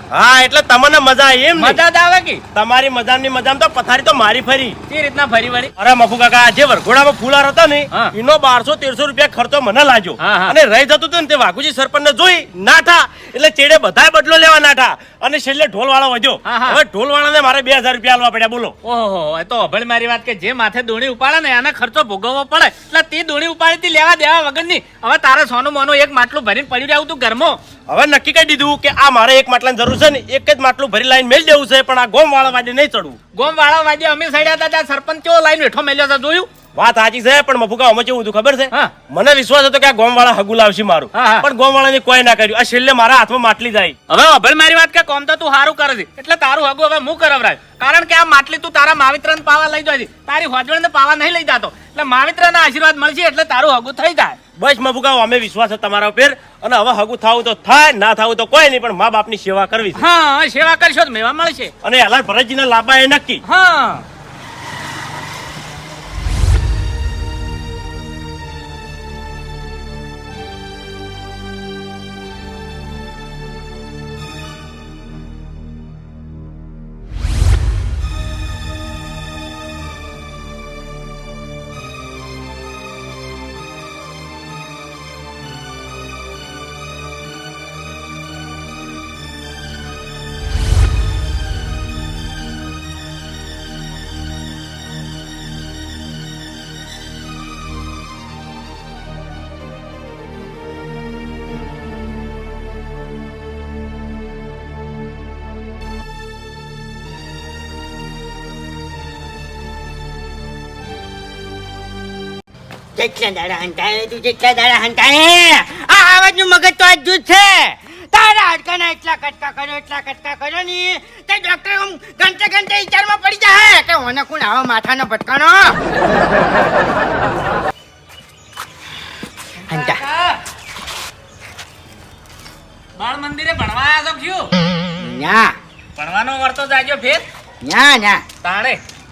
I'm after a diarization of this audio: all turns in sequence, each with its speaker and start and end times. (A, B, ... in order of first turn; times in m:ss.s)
0:00.1-0:01.8 A
0:01.6-0:02.4 B
0:02.5-0:04.8 A
0:04.9-0:05.7 B
0:05.8-0:18.7 A
0:10.2-0:10.6 B
0:16.4-0:16.8 B
0:18.8-0:27.6 B
0:27.9-0:33.2 A
0:33.4-0:36.5 B
0:36.8-0:44.0 A
0:41.1-0:41.5 B
0:44.1-0:54.4 B
0:54.6-0:59.9 A
1:00.0-1:01.7 B
1:01.8-1:03.4 A
1:03.4-1:04.0 B
1:53.0-2:05.8 C
2:09.7-2:10.0 C
2:09.7-2:10.4 B
2:13.0-2:14.5 B
2:15.0-2:15.6 C
2:16.0-2:17.2 B
2:17.6-2:18.2 C
2:18.4-2:18.8 B